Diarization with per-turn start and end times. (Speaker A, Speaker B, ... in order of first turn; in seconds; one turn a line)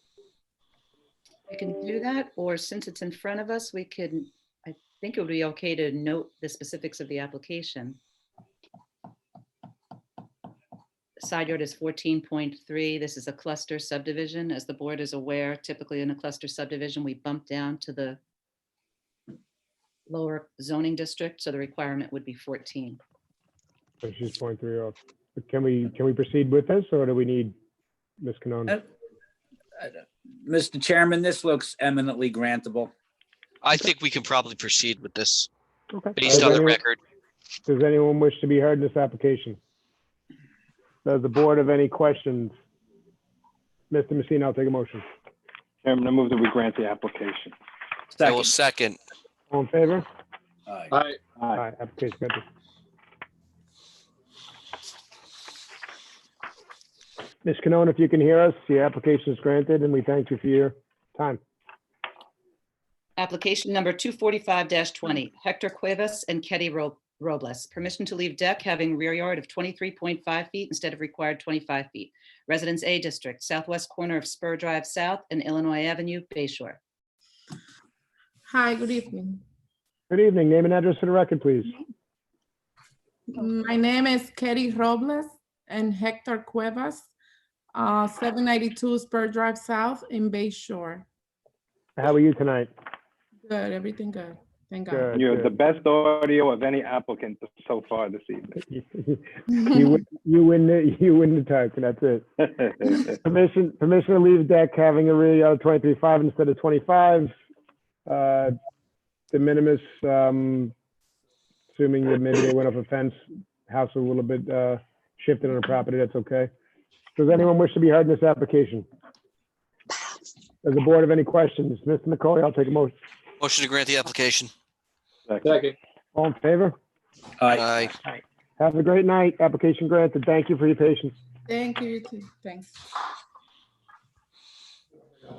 Speaker A: 1.5-8.0
Speaker A: 11.2-18.2
Speaker A: 20.1-23.0
Speaker B: 24.0-27.5
Speaker B: 28.2-28.8
Speaker C: 29.8-32.9
Speaker D: 33.6-35.5
Speaker B: 35.9-36.8
Speaker D: 36.1-37.0
Speaker B: 37.6-39.6
Speaker B: 41.0-42.5
Speaker B: 43.9-45.0
Speaker E: 45.8-47.5
Speaker C: 48.1-48.5
Speaker D: 48.2-49.0
Speaker B: 49.5-50.0
Speaker C: 50.7-51.0
Speaker B: 51.5-52.4
Speaker B: 57.4-61.4
Speaker A: 63.2-76.8
Speaker F: 78.5-79.4
Speaker B: 80.1-81.7
Speaker F: 83.3-87.1
Speaker F: 87.7-91.0
Speaker B: 92.0-92.7
Speaker F: 93.5-95.2
Speaker B: 94.9-95.5
Speaker E: 95.1-98.6
Speaker B: 98.7-102.4
Speaker B: 103.0-107.3
Speaker B: 108.1-108.5
Speaker B: 109.3-110.7
Speaker B: 111.7-113.2
Speaker B: 113.7-116.5
Speaker B: 117.2-118.8
Speaker B: 120.6-122.9
Speaker D: 123.4-124.5
Speaker E: 125.3-125.6
Speaker B: 126.1-126.7
Speaker C: 127.4-127.9
Speaker D: 127.5-127.9
Speaker B: 128.6-131.1
Speaker F: 131.5-132.7